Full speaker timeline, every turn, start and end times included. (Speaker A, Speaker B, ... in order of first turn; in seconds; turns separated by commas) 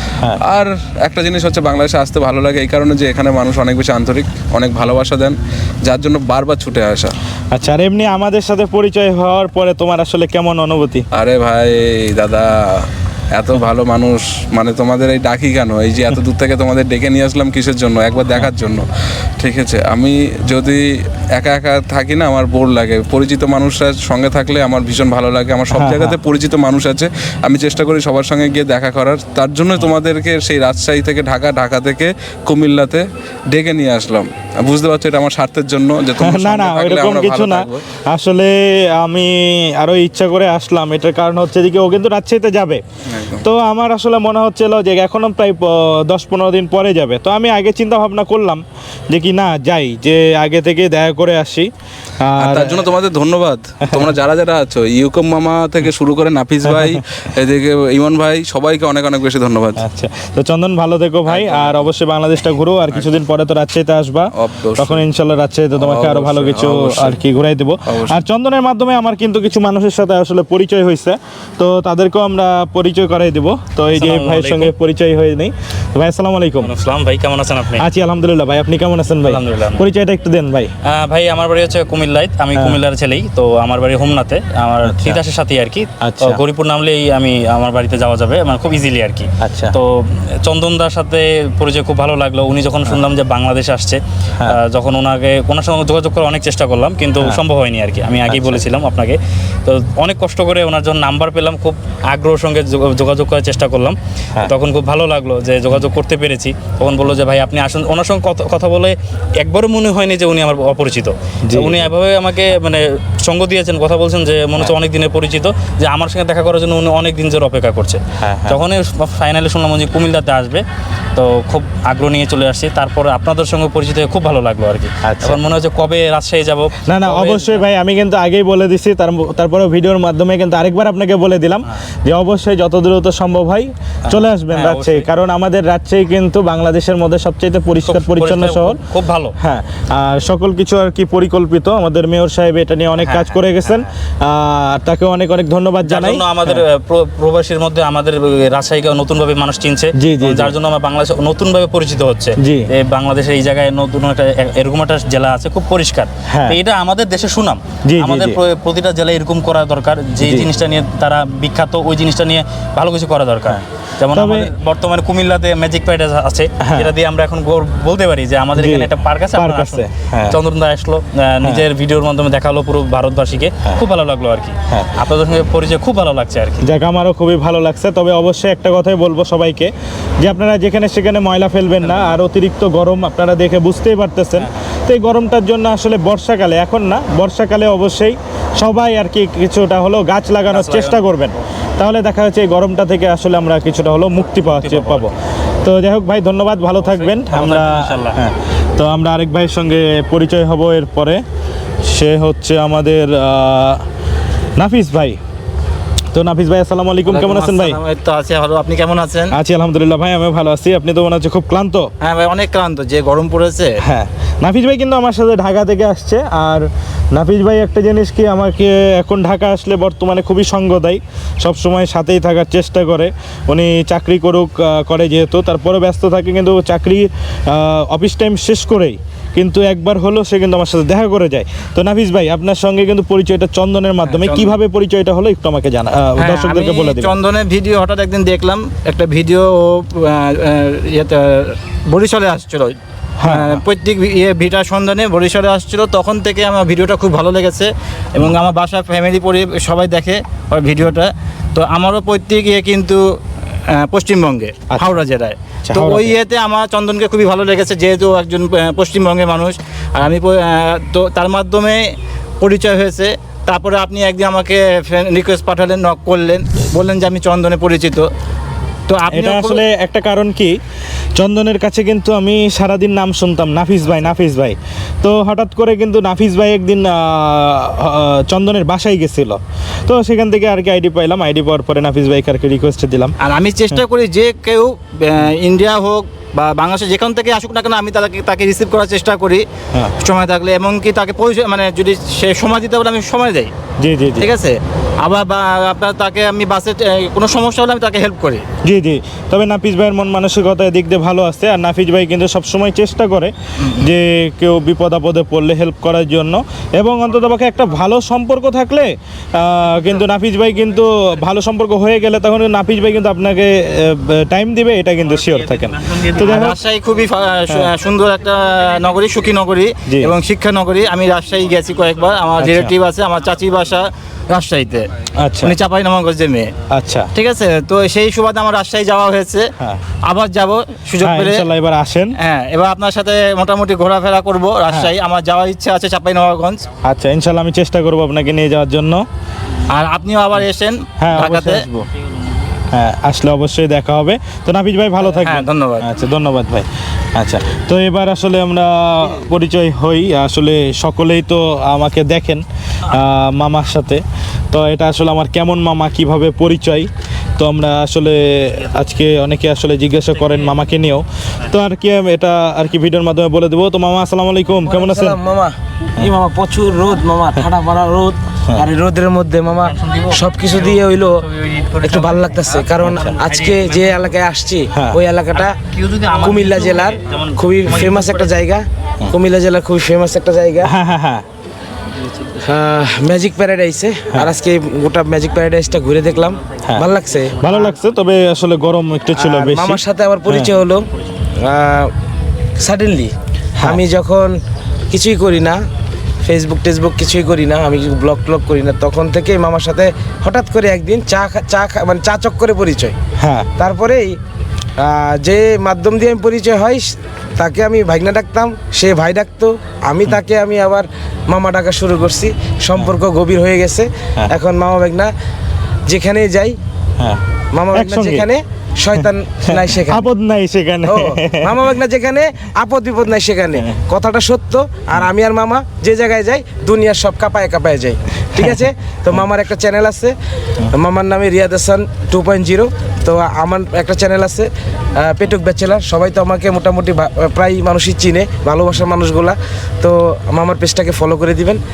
Speaker A: 0.4-7.2, Speaker B: 7.5-11.1, Speaker A: 11.1-18.9, Speaker A: 19.4-37.9, Speaker B: 25.7-26.2, Speaker B: 36.2-42.8, Speaker A: 43.1-43.5, Speaker B: 43.4-51.7, Speaker B: 52.2-52.8, Speaker A: 52.4-59.8, Speaker B: 56.8-57.0, Speaker B: 59.8-76.7, Speaker A: 61.3-61.8, Speaker A: 64.4-65.0, Speaker A: 65.8-67.2, Speaker A: 67.9-68.2, Speaker C: 73.9-74.7, Speaker C: 76.6-77.8, Speaker B: 77.8-80.7, Speaker C: 79.3-79.8, Speaker C: 80.8-120.6, Speaker B: 82.5-82.8, Speaker B: 84.8-85.2, Speaker B: 86.0-86.4, Speaker B: 89.4-89.8, Speaker B: 98.3-98.6, Speaker B: 111.4-111.9, Speaker B: 118.2-118.6, Speaker C: 121.2-127.6, Speaker B: 125.0-125.4, Speaker B: 126.8-138.8, Speaker C: 134.1-135.1, Speaker C: 137.8-139.3, Speaker B: 139.4-146.6, Speaker C: 143.0-143.9, Speaker C: 145.8-176.7, Speaker B: 150.0-150.5, Speaker B: 152.4-152.7, Speaker B: 156.3-156.6, Speaker B: 157.8-158.4, Speaker B: 160.2-160.5, Speaker B: 163.5-164.5, Speaker B: 166.6-166.9, Speaker B: 168.6-170.4, Speaker B: 174.7-174.9, Speaker B: 176.6-201.2, Speaker C: 190.5-191.0, Speaker C: 194.5-195.0, Speaker C: 196.9-198.2, Speaker B: 201.9-203.8, Speaker B: 204.6-205.2, Speaker B: 206.1-207.8, Speaker D: 207.1-209.3, Speaker B: 209.3-211.9, Speaker D: 212.0-213.7, Speaker B: 213.8-237.1, Speaker D: 234.1-234.6, Speaker D: 236.2-241.2, Speaker D: 241.9-253.0, Speaker B: 243.2-243.6, Speaker D: 253.8-261.9, Speaker B: 255.7-256.2, Speaker D: 262.4-268.1, Speaker D: 268.9-269.6, Speaker B: 269.1-270.6, Speaker B: 271.2-283.1, Speaker D: 283.2-289.4, Speaker D: 290.0-293.5, Speaker B: 293.8-294.3, Speaker D: 294.2-298.4, Speaker B: 298.6-316.6, Speaker C: 315.4-316.1, Speaker D: 316.1-324.9, Speaker B: 319.9-320.1, Speaker B: 322.4-322.7, Speaker B: 325.2-325.6, Speaker D: 325.4-326.5, Speaker B: 326.7-327.1, Speaker D: 327.1-329.5, Speaker D: 330.1-331.5, Speaker B: 331.0-332.1, Speaker D: 332.2-336.6, Speaker B: 336.8-339.1, Speaker D: 339.7-341.9, Speaker B: 341.0-341.7, Speaker B: 342.7-365.2, Speaker D: 345.0-345.9, Speaker E: 364.6-371.3, Speaker C: 369.7-370.2, Speaker C: 371.3-372.1, Speaker E: 371.8-375.6, Speaker B: 372.8-373.1, Speaker C: 372.9-374.1, Speaker B: 374.7-375.0, Speaker C: 375.4-378.3, Speaker E: 376.1-380.7, Speaker B: 380.6-381.2, Speaker E: 382.4-387.7, Speaker B: 387.4-390.5, Speaker E: 389.2-390.9, Speaker E: 391.4-391.9, Speaker E: 392.6-394.4, Speaker E: 394.9-395.6, Speaker E: 396.2-402.9, Speaker B: 403.2-403.5, Speaker E: 403.6-404.2, Speaker E: 404.8-415.1, Speaker E: 415.9-416.6, Speaker E: 417.5-420.1, Speaker B: 417.7-418.3, Speaker B: 418.9-421.6, Speaker E: 420.9-430.1, Speaker E: 430.7-441.6